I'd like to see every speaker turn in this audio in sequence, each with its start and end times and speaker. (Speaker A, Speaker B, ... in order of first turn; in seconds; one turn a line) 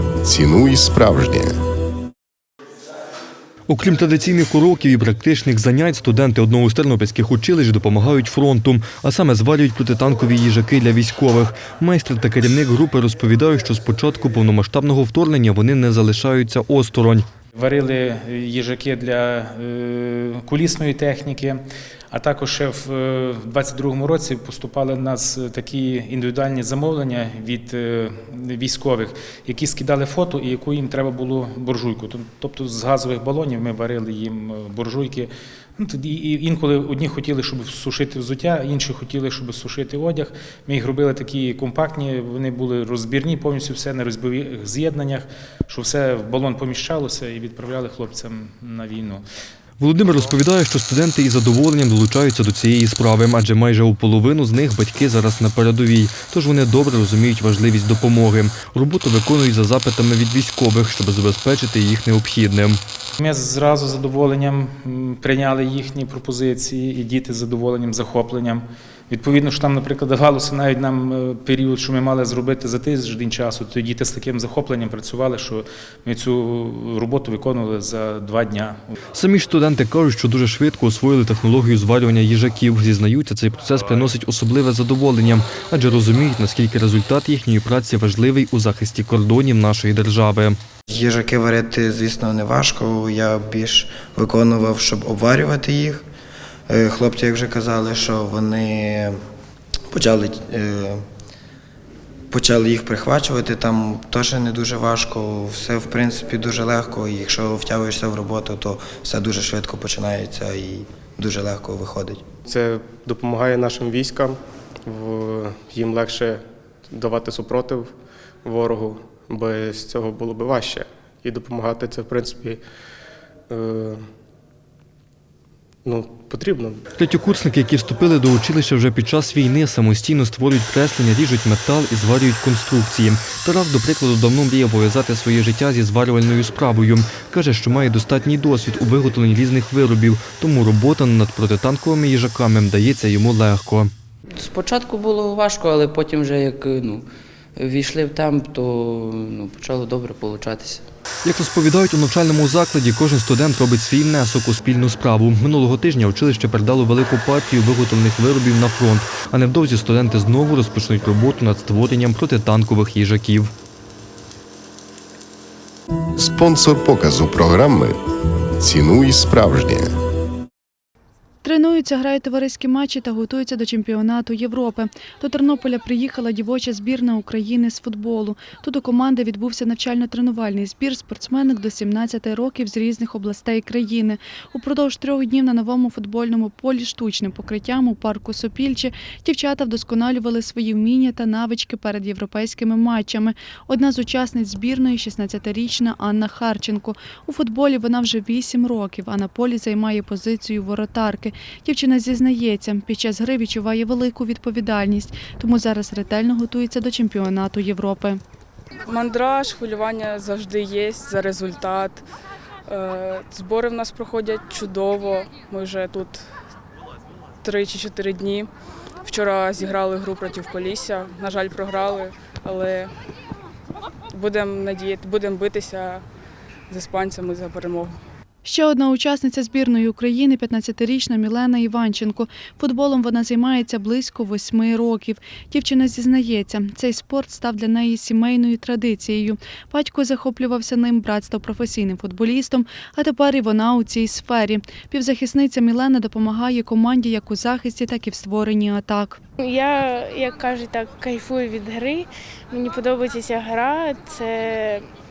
Speaker A: 0.2-1.5
Speaker B: 3.7-17.2
Speaker C: 17.5-21.6
Speaker C: 22.1-49.2
Speaker B: 49.8-62.8
Speaker C: 63.2-78.9
Speaker B: 79.1-90.5
Speaker D: 90.9-96.0
Speaker D: 96.7-99.2
Speaker D: 99.9-101.0
Speaker D: 102.3-112.2
Speaker E: 112.5-117.9
Speaker E: 118.4-122.6
Speaker E: 123.5-124.0
Speaker E: 125.8-126.8
Speaker B: 127.0-143.9
Speaker F: 144.3-150.8
Speaker B: 151.2-163.5
Speaker A: 166.2-168.0
Speaker A: 168.6-169.9
Speaker G: 171.4-208.2
Speaker H: 208.9-212.0
Speaker H: 212.7-216.3
Speaker H: 217.4-218.5
Speaker H: 219.0-222.9
Speaker H: 224.1-226.0
Speaker H: 226.7-228.0
Speaker G: 228.4-249.2
Speaker I: 249.4-254.9